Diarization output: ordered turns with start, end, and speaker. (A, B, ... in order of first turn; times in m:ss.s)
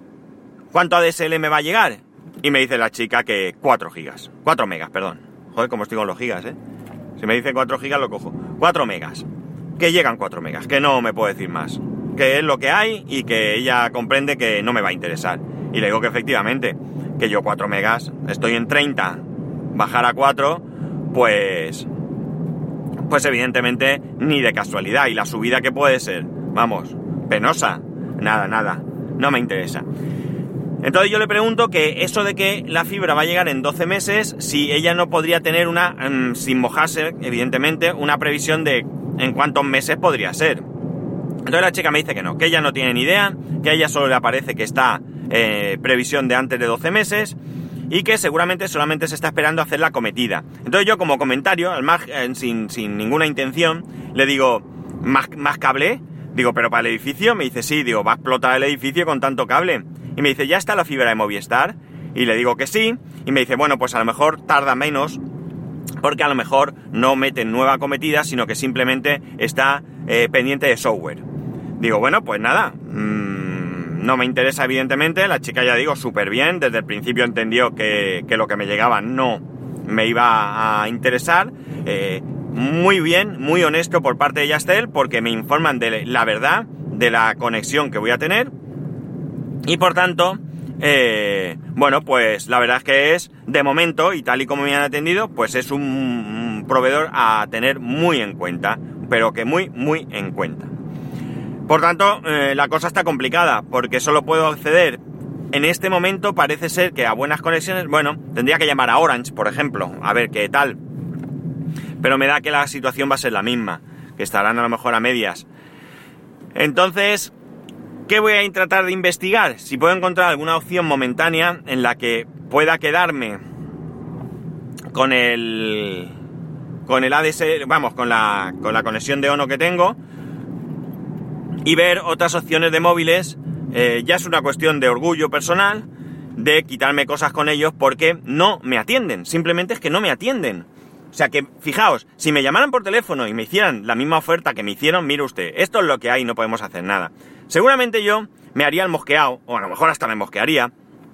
0:00.7-0:06.5 A
0:07.2-0:09.2 A
0:09.8-0:19.2 A
0:19.7-0:21.9 A
0:23.1-0:29.8 A
0:30.8-0:40.6 A
0:41.4-0:47.4 A
0:47.9-1:05.2 A
1:06.0-1:11.2 A
1:11.8-1:28.5 A
1:29.6-1:40.7 A
1:41.7-1:45.0 A
1:45.5-1:50.8 A
1:52.0-1:55.5 A
1:56.5-1:57.3 A
1:58.1-2:03.4 A
2:04.9-2:06.1 A
2:06.8-2:10.0 A
2:11.6-2:30.7 A